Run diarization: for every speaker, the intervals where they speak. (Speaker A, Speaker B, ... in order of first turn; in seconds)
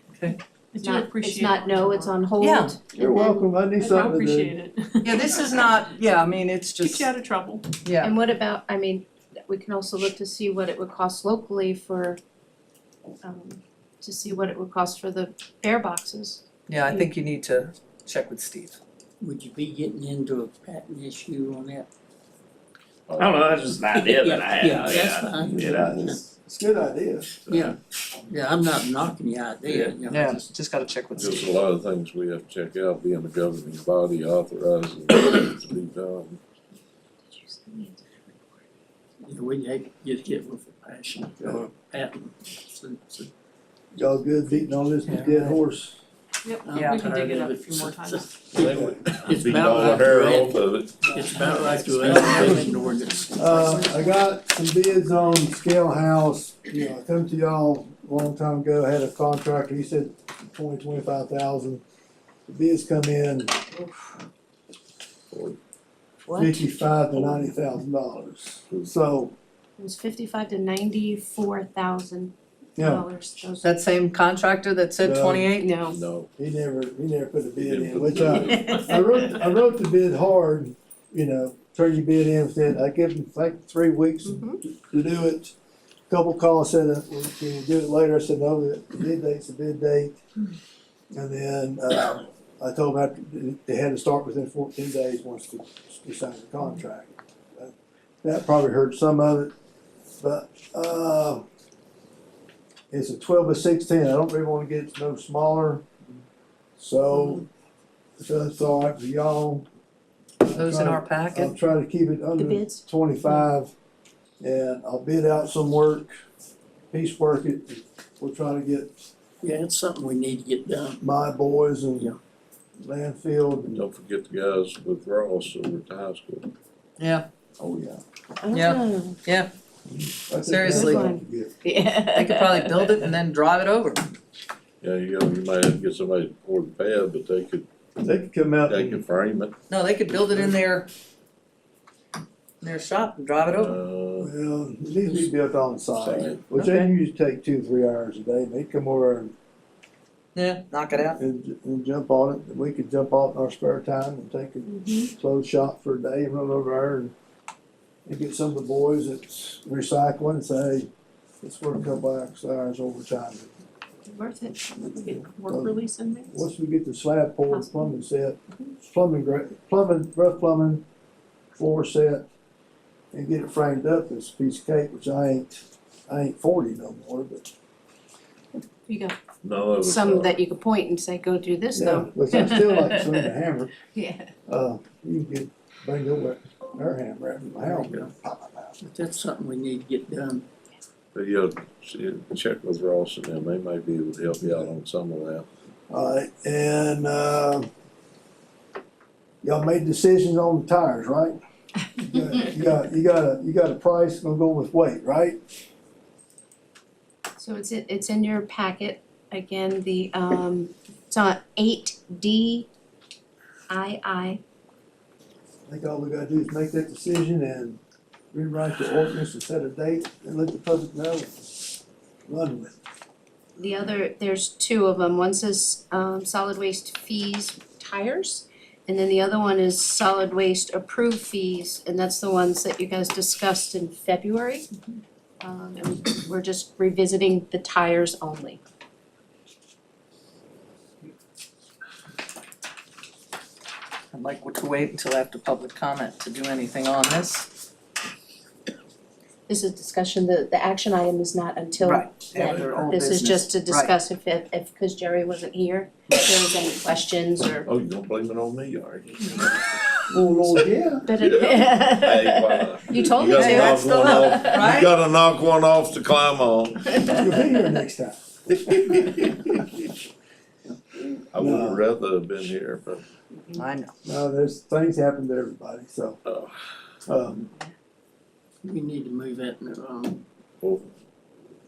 Speaker A: 0.7-2.2, 3.8-5.6, 6.8-7.7, 46.5-48.4, 52.1-53.1, 53.6-53.9, 164.9-166.4
Speaker B: 0.8-3.5, 8.0-12.2, 13.2-17.1, 37.4-38.0, 66.2-66.6, 69.8-73.8, 75.6-76.0, 78.5-79.0, 84.2-84.6, 112.4-112.9, 128.4-129.2, 130.6-133.0, 154.7-155.1, 164.1-164.8, 167.5-167.9, 178.9-179.2, 179.8-183.2, 183.9-184.3, 207.4-212.7, 213.7-214.4, 223.6-234.7, 235.4-238.6, 249.5-257.7, 261.1-264.7
Speaker C: 2.4-2.8, 5.0-7.1, 7.8-8.1, 16.7-18.8, 30.1-31.5, 45.0-45.5, 46.7-47.1, 51.9-52.5, 73.6-75.8, 110.5-111.5, 127.0-127.3, 128.5-129.5, 130.4-131.1, 132.1-134.1, 139.7-140.9, 142.6-143.8, 146.5-146.9, 150.3-151.2, 244.1-247.5, 251.8-253.9, 263.3-264.9, 273.6-273.9
Speaker D: 3.0-4.6, 25.5-27.4, 41.4-41.7, 44.0-46.0, 48.6-49.0, 52.1-52.7, 53.3-61.8, 62.5-63.6, 66.3-69.3, 72.8-73.0, 75.0-75.5, 76.4-85.5, 86.1-90.2, 91.1-99.5, 100.2-101.4, 102.9-105.8, 106.8-107.5, 108.2-109.7, 110.4-113.7, 114.4-116.1, 116.9-119.1, 121.0-122.1, 122.8-123.8, 127.6-128.0, 130.3-131.5, 138.0-139.0, 144.2-149.3, 151.1-157.1, 158.1-160.9, 161.4-163.5, 165.1-165.8, 166.3-170.8, 171.6-172.3, 173.1-177.5, 181.8-183.7, 184.5-188.8, 194.4-194.7, 195.9-197.7, 199.4-201.4, 202.0-205.4, 215.7-217.8, 218.3-221.6, 222.3-222.8, 260.1-261.1, 267.1-269.8, 271.0-271.8, 274.1-276.2, 277.1-277.5
Speaker E: 19.2-21.9, 23.9-26.2, 27.5-30.5, 39.2-43.3, 46.6-54.0, 119.4-121.0, 145.1-145.3, 187.6-188.1, 188.8-190.5, 278.6-280.2
Speaker F: 23.1-23.7, 27.5-27.7, 31.1-36.4, 48.6-51.9, 65.3-65.6, 67.1-67.5, 75.8-76.3, 77.6-78.8, 123.7-126.5, 134.8-137.7, 138.7-139.6, 143.5-144.3, 146.0-146.5, 179.4-180.4, 191.2-195.5, 252.4-252.7, 257.7-259.6, 261.2-267.1, 271.3-273.0, 276.2-276.6, 280.6-280.9
Speaker G: 23.2-25.9